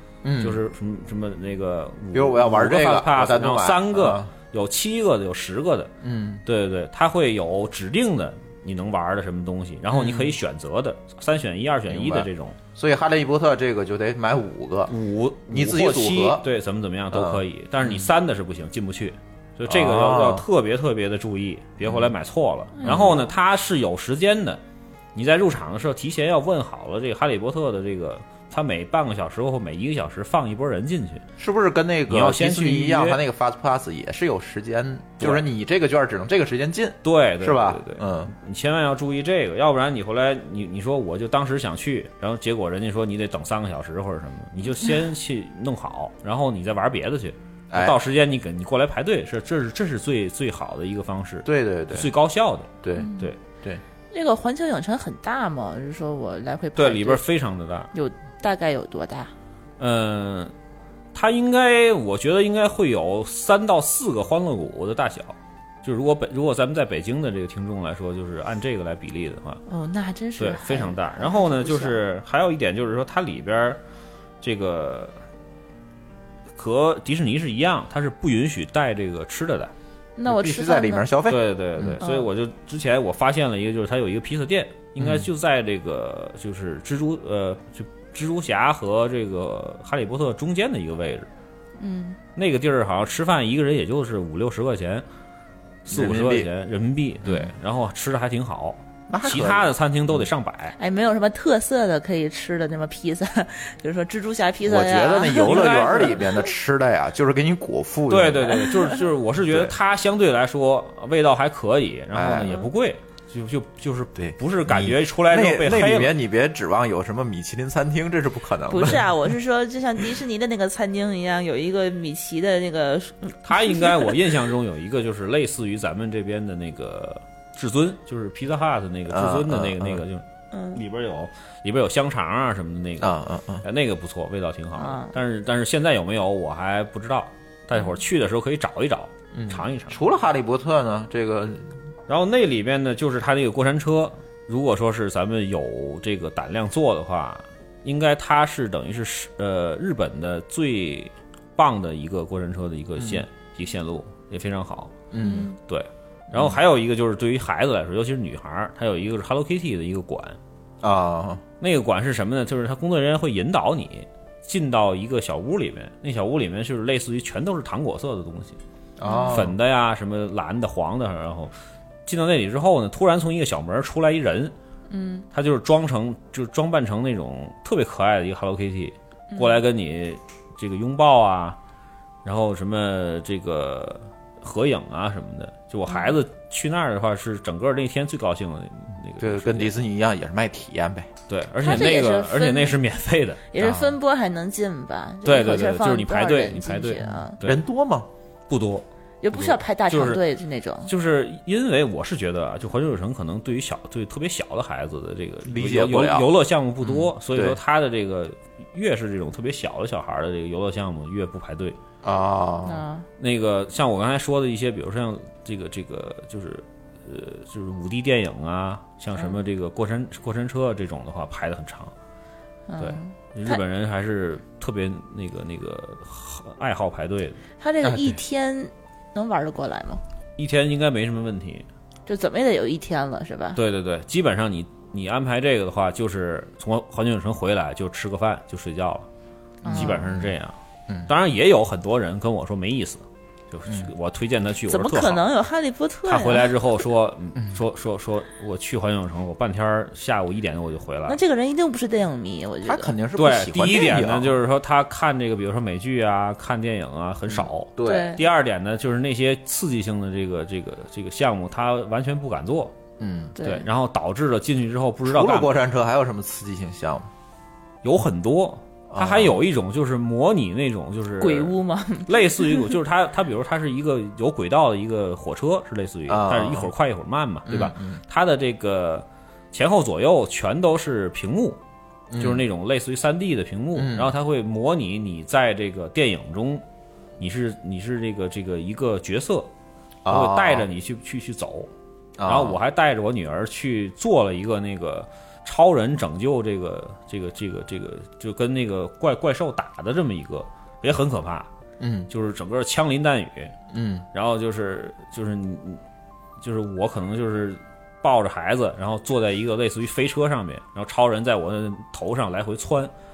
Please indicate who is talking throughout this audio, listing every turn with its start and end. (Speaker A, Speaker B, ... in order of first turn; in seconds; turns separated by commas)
Speaker A: 0.2-0.6, Speaker B: 0.4-5.9, Speaker A: 2.1-4.3, Speaker A: 6.0-6.4, Speaker B: 6.5-12.6, Speaker A: 9.9-10.4, Speaker A: 11.9-14.9, Speaker B: 14.9-24.6, Speaker A: 15.5-16.4, Speaker A: 17.1-18.1, Speaker A: 19.7-20.4, Speaker A: 21.8-22.1, Speaker A: 22.8-23.2, Speaker B: 25.1-31.2, Speaker A: 31.4-38.3, Speaker B: 32.1-33.2, Speaker B: 35.2-35.4, Speaker B: 37.0-53.4, Speaker A: 47.7-48.0, Speaker A: 51.4-52.1, Speaker A: 52.8-53.8, Speaker C: 53.0-53.3, Speaker C: 54.1-57.2, Speaker B: 56.8-57.9, Speaker C: 57.9-59.3, Speaker B: 59.8-60.5, Speaker B: 61.1-69.6, Speaker C: 69.7-72.0, Speaker B: 70.4-73.8, Speaker B: 74.4-75.2, Speaker B: 76.6-79.7, Speaker C: 80.2-81.1, Speaker A: 80.2-82.0, Speaker B: 81.3-91.3, Speaker C: 82.0-82.3, Speaker A: 85.0-85.3, Speaker C: 91.8-92.2, Speaker B: 92.3-95.0, Speaker B: 95.8-100.7, Speaker A: 95.9-96.5, Speaker A: 97.2-97.5, Speaker A: 99.1-100.3, Speaker C: 100.8-106.4, Speaker A: 104.6-108.7, Speaker B: 105.4-106.2, Speaker B: 108.1-116.1, Speaker A: 109.4-109.7, Speaker A: 112.1-112.6, Speaker A: 114.2-119.0, Speaker C: 118.7-124.1, Speaker B: 123.4-140.0, Speaker A: 129.1-130.0, Speaker C: 130.5-130.8, Speaker A: 133.0-133.6, Speaker C: 134.8-135.1, Speaker A: 139.3-141.7, Speaker B: 142.1-154.9, Speaker A: 153.0-153.2, Speaker A: 155.1-155.5, Speaker C: 155.2-155.6, Speaker B: 155.6-160.4, Speaker A: 156.3-156.6, Speaker A: 160.8-161.4, Speaker B: 161.6-168.6, Speaker A: 169.0-169.6, Speaker C: 169.1-169.4, Speaker B: 169.2-171.5, Speaker B: 172.1-174.5, Speaker C: 174.9-175.2, Speaker B: 175.3-181.6, Speaker C: 179.3-179.6, Speaker B: 182.2-189.8, Speaker C: 185.9-186.2, Speaker A: 189.2-191.1, Speaker B: 191.3-193.5, Speaker C: 191.6-192.8, Speaker C: 193.5-197.4, Speaker A: 193.6-193.9, Speaker B: 195.2-197.6, Speaker A: 197.4-198.1, Speaker B: 198.5-200.2, Speaker C: 199.2-200.9, Speaker B: 200.8-211.8, Speaker A: 205.4-206.3, Speaker A: 206.8-207.6, Speaker A: 212.0-212.8, Speaker C: 212.6-213.1, Speaker B: 213.2-221.9, Speaker C: 222.7-223.6, Speaker B: 222.8-227.4, Speaker C: 227.6-230.0, Speaker B: 230.4-231.7, Speaker C: 232.1-233.6, Speaker B: 233.6-239.1, Speaker C: 239.6-240.0, Speaker A: 239.6-240.3, Speaker B: 239.7-240.6, Speaker B: 241.1-245.2, Speaker C: 244.7-246.5, Speaker B: 246.1-251.2, Speaker C: 251.1-252.9, Speaker A: 252.6-254.4, Speaker B: 253.2-262.7, Speaker A: 257.3-258.1, Speaker C: 257.8-258.2, Speaker A: 263.0-263.3, Speaker C: 263.4-263.6, Speaker B: 263.4-265.6, Speaker A: 265.0-267.1, Speaker B: 267.8-271.5, Speaker A: 268.9-269.4, Speaker C: 271.2-272.7, Speaker B: 272.1-281.6, Speaker A: 276.1-276.7, Speaker A: 277.5-278.0, Speaker A: 282.1-282.4, Speaker B: 282.2-286.6, Speaker A: 283.7-284.1, Speaker B: 287.2-289.5, Speaker A: 290.0-290.7, Speaker B: 290.1-291.7, Speaker A: 292.2-292.6, Speaker B: 292.2-301.5, Speaker A: 301.8-302.1, Speaker B: 302.1-303.5, Speaker A: 303.7-304.1, Speaker B: 304.1-305.8, Speaker B: 306.4-312.9